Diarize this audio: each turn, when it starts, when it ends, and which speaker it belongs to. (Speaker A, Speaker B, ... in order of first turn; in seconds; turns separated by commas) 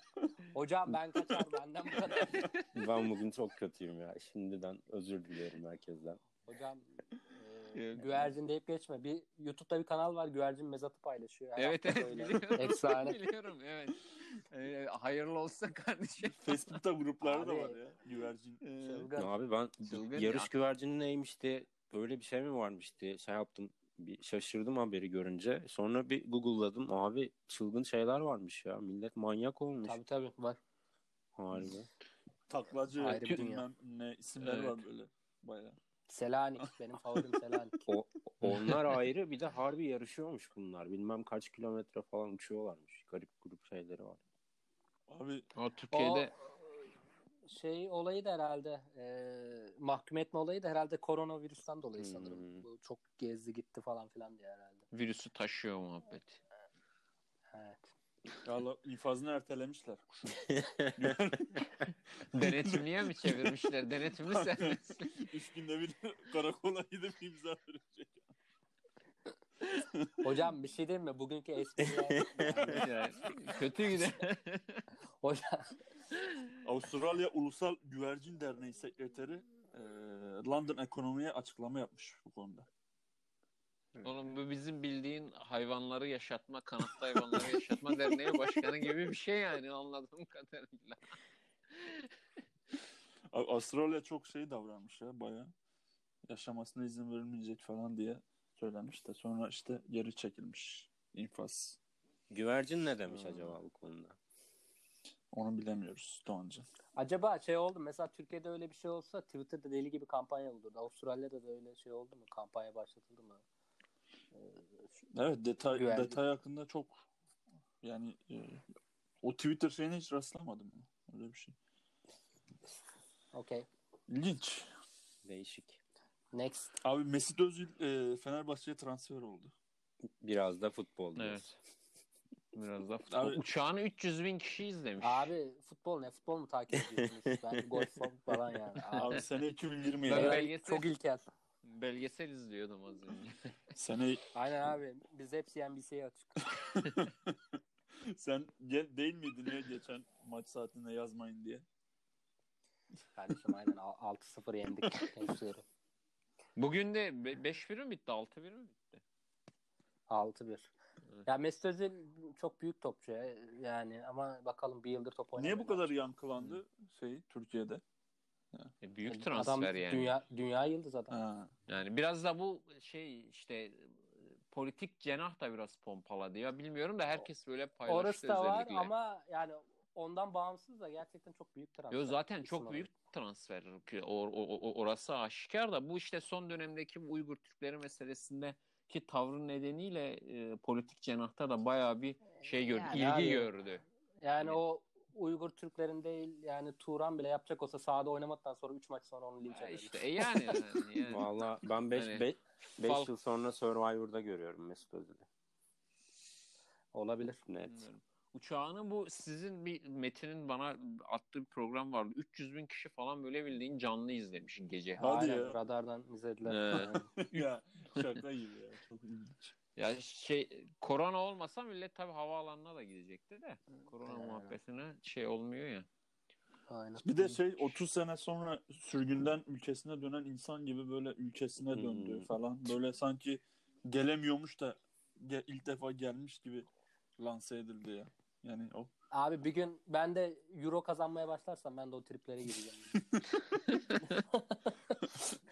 Speaker A: 0.5-2.5, Speaker B: 2.3-2.6, Speaker C: 2.7-6.2, Speaker A: 6.5-13.2, Speaker B: 7.8-8.3, Speaker B: 11.6-16.5, Speaker D: 16.4-18.6, Speaker A: 17.2-17.8, Speaker B: 18.6-19.1, Speaker A: 18.8-19.3, Speaker C: 19.2-30.0, Speaker B: 19.9-20.5, Speaker A: 29.8-30.6, Speaker C: 31.4-31.9, Speaker D: 32.5-35.8, Speaker A: 33.0-33.6, Speaker B: 34.4-34.8, Speaker A: 36.1-37.9, Speaker C: 37.9-44.2, Speaker B: 38.5-38.9, Speaker D: 45.1-45.5, Speaker B: 45.6-46.3, Speaker A: 45.9-46.3, Speaker A: 47.5-54.8, Speaker C: 52.0-52.7, Speaker B: 54.9-56.4, Speaker A: 57.5-57.9, Speaker D: 58.4-60.3, Speaker C: 60.4-61.6, Speaker D: 61.0-61.7, Speaker B: 62.3-65.2, Speaker D: 62.4-63.5, Speaker D: 64.2-68.3, Speaker D: 69.7-70.2, Speaker A: 70.2-72.8, Speaker C: 72.1-72.8, Speaker D: 72.6-73.3, Speaker B: 72.7-74.9, Speaker A: 75.2-75.8, Speaker D: 76.6-82.7, Speaker B: 84.0-91.2, Speaker B: 91.7-92.1, Speaker D: 93.3-95.5, Speaker D: 96.3-101.8, Speaker C: 102.3-104.2, Speaker D: 105.3-106.6, Speaker A: 107.0-113.4, Speaker A: 114.4-114.6, Speaker D: 115.1-117.0, Speaker A: 115.7-116.2, Speaker D: 117.8-118.7, Speaker D: 119.2-121.5, Speaker A: 123.3-123.7, Speaker D: 124.1-124.7, Speaker C: 125.2-125.8, Speaker A: 126.3-126.8, Speaker D: 126.8-129.5, Speaker C: 130.2-131.6, Speaker B: 131.2-131.4, Speaker B: 132.5-135.3, Speaker D: 133.1-133.4, Speaker A: 135.0-139.2, Speaker D: 139.0-140.4, Speaker B: 140.1-140.9, Speaker A: 140.1-141.3, Speaker B: 141.6-143.5, Speaker D: 143.8-144.2, Speaker A: 144.3-146.4, Speaker D: 146.5-147.4, Speaker D: 148.1-151.7, Speaker A: 153.2-155.6, Speaker B: 156.6-159.0, Speaker A: 160.1-160.7, Speaker A: 161.3-165.9, Speaker D: 165.4-167.8, Speaker B: 168.8-170.2, Speaker A: 169.1-171.2, Speaker D: 171.1-171.5, Speaker B: 171.7-173.9, Speaker B: 174.5-178.9, Speaker A: 177.9-182.9, Speaker B: 181.9-193.8, Speaker A: 192.7-193.5, Speaker A: 194.2-200.6, Speaker B: 199.5-202.3, Speaker C: 201.1-205.3, Speaker B: 202.8-203.1, Speaker A: 206.9-207.4, Speaker C: 207.5-207.9, Speaker B: 207.7-215.1, Speaker A: 215.0-217.1, Speaker D: 215.0-215.6, Speaker B: 216.5-216.9, Speaker D: 216.7-219.6, Speaker B: 219.8-225.9, Speaker A: 224.1-224.6, Speaker A: 226.7-227.1, Speaker D: 227.0-236.7, Speaker C: 231.7-232.3, Speaker D: 237.2-238.9, Speaker A: 239.1-243.0, Speaker A: 244.0-245.0